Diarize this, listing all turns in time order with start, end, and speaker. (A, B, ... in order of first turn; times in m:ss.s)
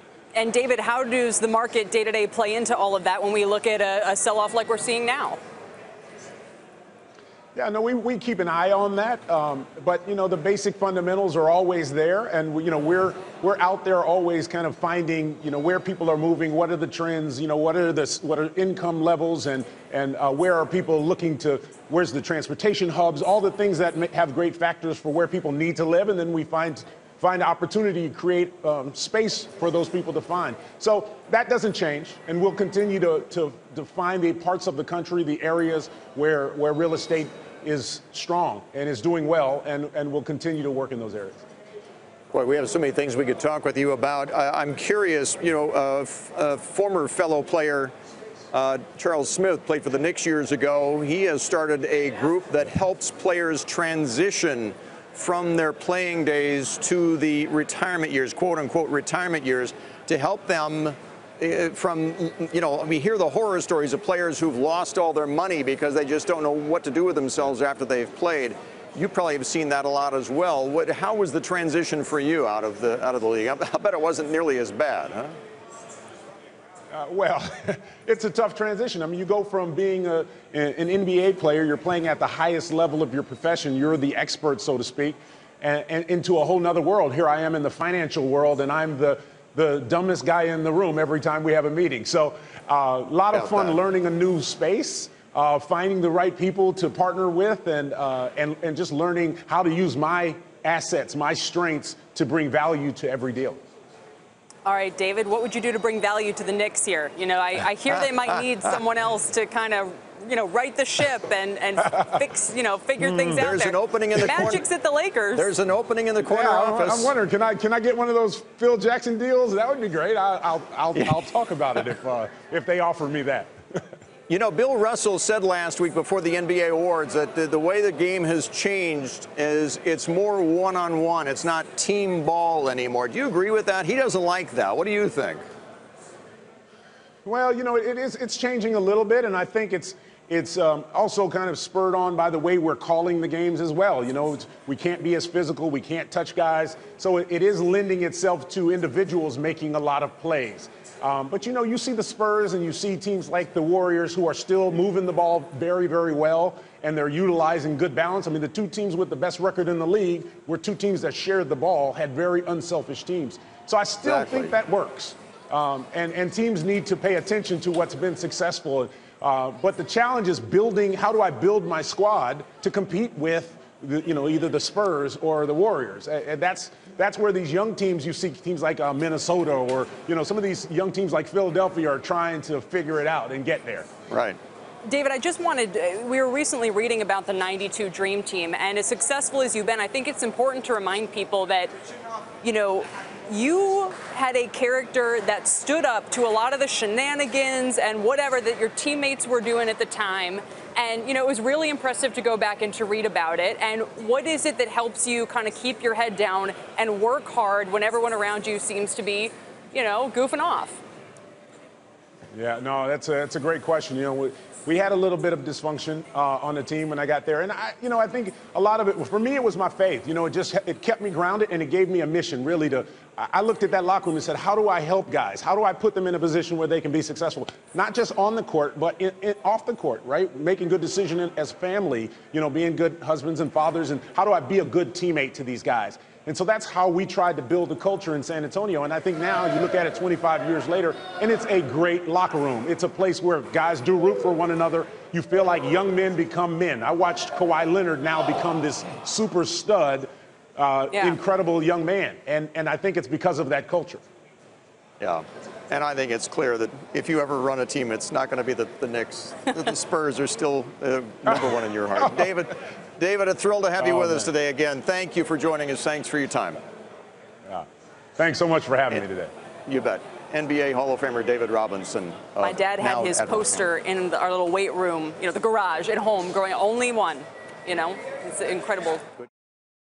0:00.3-0:05.4 A
0:07.6-0:41.4 B
0:42.3-0:47.9 C
0:48.5-1:15.4 C
1:16.9-1:43.6 B
1:33.3-1:33.8 C
1:44.6-1:55.5 A
1:53.2-1:54.6 C
1:55.4-1:57.1 C
1:56.3-2:03.8 B
2:04.3-2:15.4 C
2:17.2-3:03.9 B
2:44.0-2:44.5 C
3:04.1-3:04.4 C
3:04.8-3:11.7 A
3:12.4-3:30.8 A
3:32.3-4:14.0 B
4:10.9-4:11.2 A
4:15.0-4:26.6 C
4:23.8-4:24.3 B
4:27.5-4:29.3 B
4:29.7-4:33.7 C
4:32.4-4:39.0 A